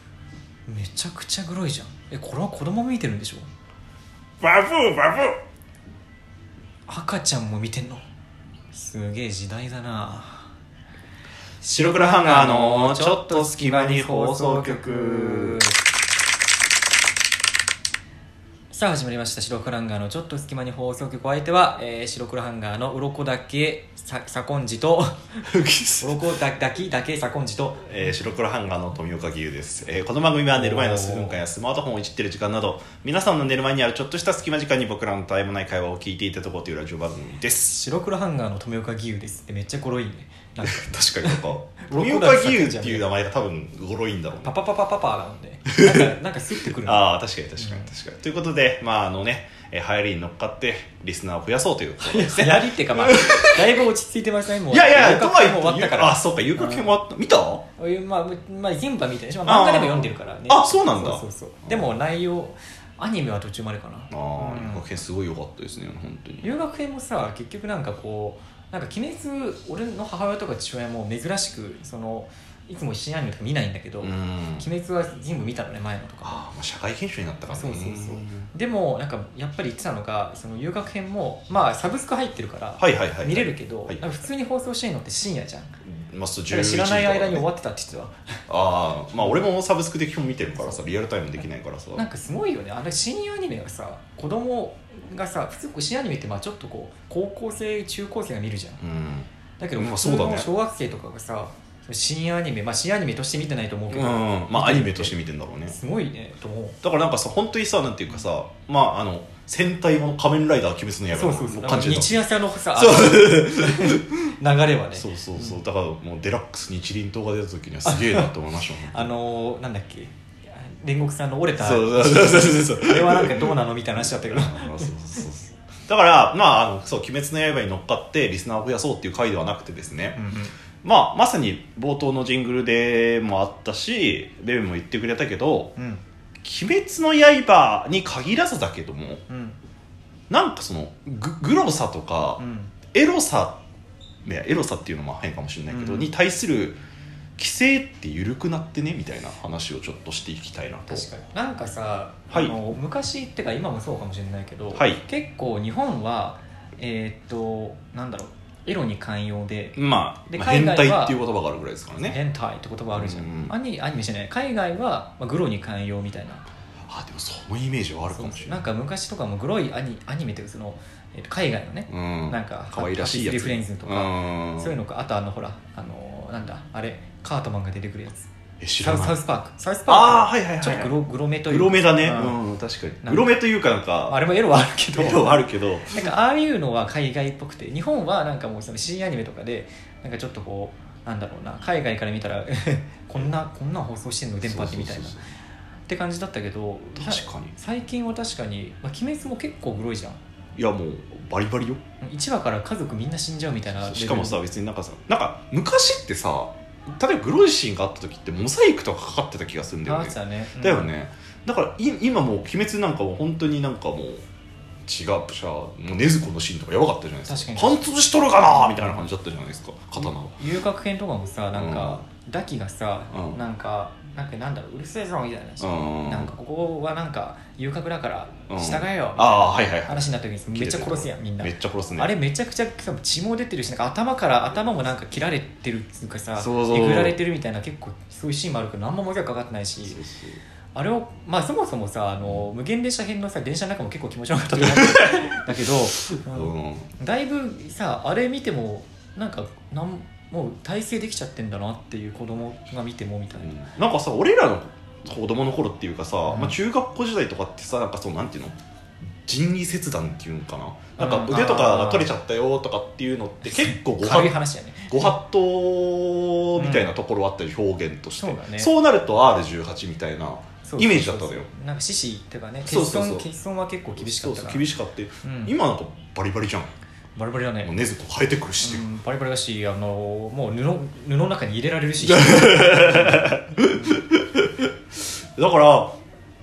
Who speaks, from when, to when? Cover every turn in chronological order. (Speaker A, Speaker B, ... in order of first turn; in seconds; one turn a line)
Speaker A: 0.7-3.5
Speaker B: 4.4-5.4
Speaker A: 6.9-8.0
Speaker A: 8.7-10.5
Speaker A: 11.6-15.8
Speaker B: 11.7-15.6
Speaker A: 18.7-25.4
Speaker B: 25.4-26.2
Speaker A: 26.0-28.1
Speaker B: 27.9-37.8
Speaker A: 30.5-31.4
Speaker A: 37.7-43.1
Speaker B: 40.6-44.5
Speaker A: 44.4-47.0
Speaker B: 45.7-46.1
Speaker B: 46.7-53.8
Speaker A: 47.6-47.9
Speaker A: 52.0-56.9
Speaker B: 54.7-57.7
Speaker A: 57.8-64.8
Speaker B: 59.5-61.9
Speaker B: 64.1-66.5
Speaker A: 66.4-76.4
Speaker B: 74.0-74.7
Speaker B: 76.2-78.5
Speaker A: 77.5-85.8
Speaker B: 82.8-84.1
Speaker B: 85.8-87.5
Speaker A: 86.5-88.4
Speaker B: 88.5-92.0
Speaker A: 90.5-90.8
Speaker A: 92.0-98.8
Speaker B: 98.8-100.5
Speaker A: 99.6-105.2
Speaker B: 103.9-105.8
Speaker A: 105.7-106.8
Speaker B: 106.8-114.0
Speaker A: 111.1-115.6
Speaker B: 115.0-119.1
Speaker A: 117.9-118.3
Speaker A: 118.8-124.9
Speaker B: 121.6-130.2
Speaker A: 130.2-130.5
Speaker B: 130.8-135.7
Speaker A: 135.8-136.0
Speaker B: 136.4-139.2
Speaker A: 139.3-139.6
Speaker B: 140.3-142.4
Speaker A: 142.4-142.7
Speaker B: 142.9-143.6
Speaker B: 144.2-146.8
Speaker A: 145.7-146.1
Speaker B: 147.4-151.1
Speaker A: 150.9-159.8
Speaker B: 152.3-152.6
Speaker B: 154.8-155.0
Speaker B: 159.8-162.2
Speaker A: 160.3-161.2
Speaker A: 162.0-166.5
Speaker B: 162.9-163.5
Speaker B: 166.9-168.7
Speaker A: 168.1-182.4
Speaker B: 171.9-174.8
Speaker B: 178.6-179.2
Speaker B: 179.9-180.9
Speaker B: 181.5-184.2
Speaker A: 183.0-183.4
Speaker A: 184.1-195.2
Speaker B: 184.9-186.1
Speaker B: 194.4-195.3
Speaker A: 195.9-200.2
Speaker B: 196.9-197.6
Speaker B: 200.6-201.8
Speaker A: 202.0-204.4
Speaker B: 203.8-214.2
Speaker A: 209.8-210.9
Speaker B: 214.8-220.4
Speaker A: 217.3-217.8
Speaker A: 218.6-219.1
Speaker A: 220.0-240.0
Speaker B: 221.5-222.0
Speaker B: 223.1-223.4
Speaker B: 225.6-226.3
Speaker B: 228.5-232.1
Speaker B: 236.3-237.2
Speaker B: 239.8-240.4
Speaker A: 240.8-253.5
Speaker B: 244.6-246.9
Speaker B: 253.4-258.6
Speaker A: 256.3-256.6
Speaker B: 259.2-264.4
Speaker A: 261.0-262.1
Speaker A: 263.4-265.1
Speaker B: 264.9-271.5
Speaker A: 266.6-266.9
Speaker A: 268.2-268.7
Speaker A: 270.6-274.7
Speaker B: 272.6-273.3
Speaker B: 274.0-276.7
Speaker A: 275.2-275.5
Speaker A: 277.2-277.7
Speaker B: 277.6-278.9
Speaker A: 278.6-284.0
Speaker B: 282.0-286.0